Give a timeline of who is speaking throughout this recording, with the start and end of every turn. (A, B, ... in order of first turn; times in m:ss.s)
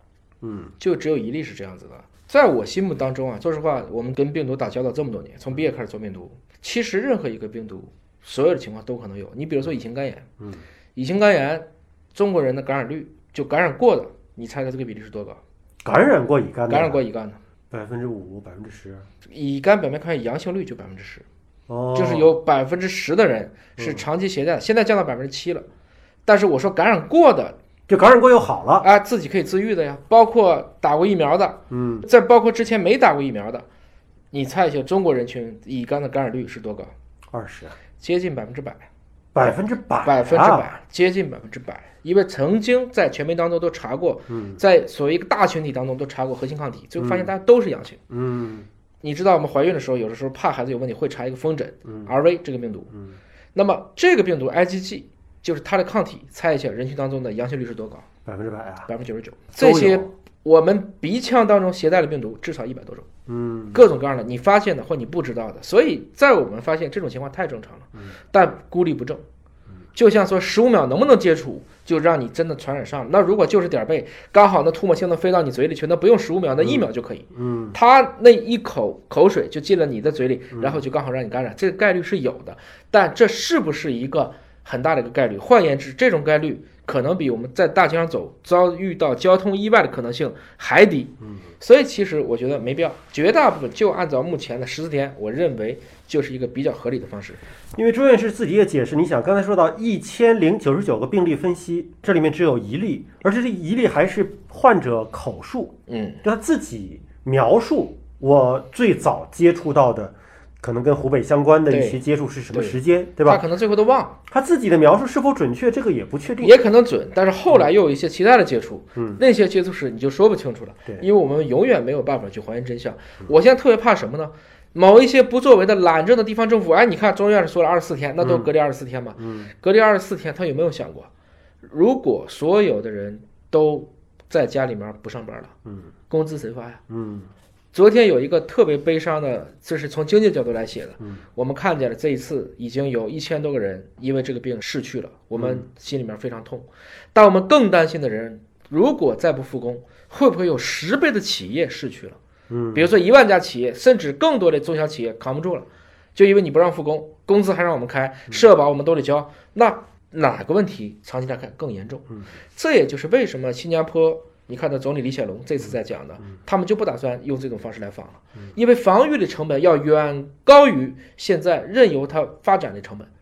0:00.4-0:00.7 A
0:00.8-0:10.3 B
0:11.0-0:15.4 B
0:15.8-0:17.0 A
0:16.7-0:17.4 B
0:17.7-0:19.0 A
0:19.3-0:21.3 B
0:21.7-0:22.3 A
0:21.9-0:25.7 B
0:23.8-0:24.0 A
0:26.3-0:27.6 B
0:27.9-0:28.9 A
0:28.8-0:33.6 B
0:31.7-0:32.1 A
0:34.3-0:36.9 B
0:37.3-0:37.8 A
0:38.0-0:38.9 B
0:39.3-0:40.7 A
0:40.0-0:48.0 B
0:44.3-0:44.6 A
0:47.0-0:47.3 A
0:48.1-0:48.7 A
0:49.0-0:52.9 B
0:53.5-0:58.1 B
0:58.3-0:58.9 A
0:58.9-1:03.1 B
0:59.6-1:00.1 A
1:03.3-1:03.9 A
1:03.7-1:09.2 B
1:10.0-1:37.4 B
1:17.4-1:17.8 A
1:20.5-1:20.8 A
1:37.8-1:53.4 A
1:45.9-1:46.2 B
1:51.7-1:54.2 B
1:54.3-1:56.6 A
1:56.4-2:11.1 B
1:59.0-1:59.2 A
2:08.2-2:08.5 A
2:09.2-2:09.5 A
2:11.6-2:15.5 B
2:16.1-2:16.8 B
2:16.9-2:17.3 A
2:17.7-2:32.2 B
2:25.4-2:25.6 A
2:32.5-2:32.9 A
2:32.7-2:53.1 B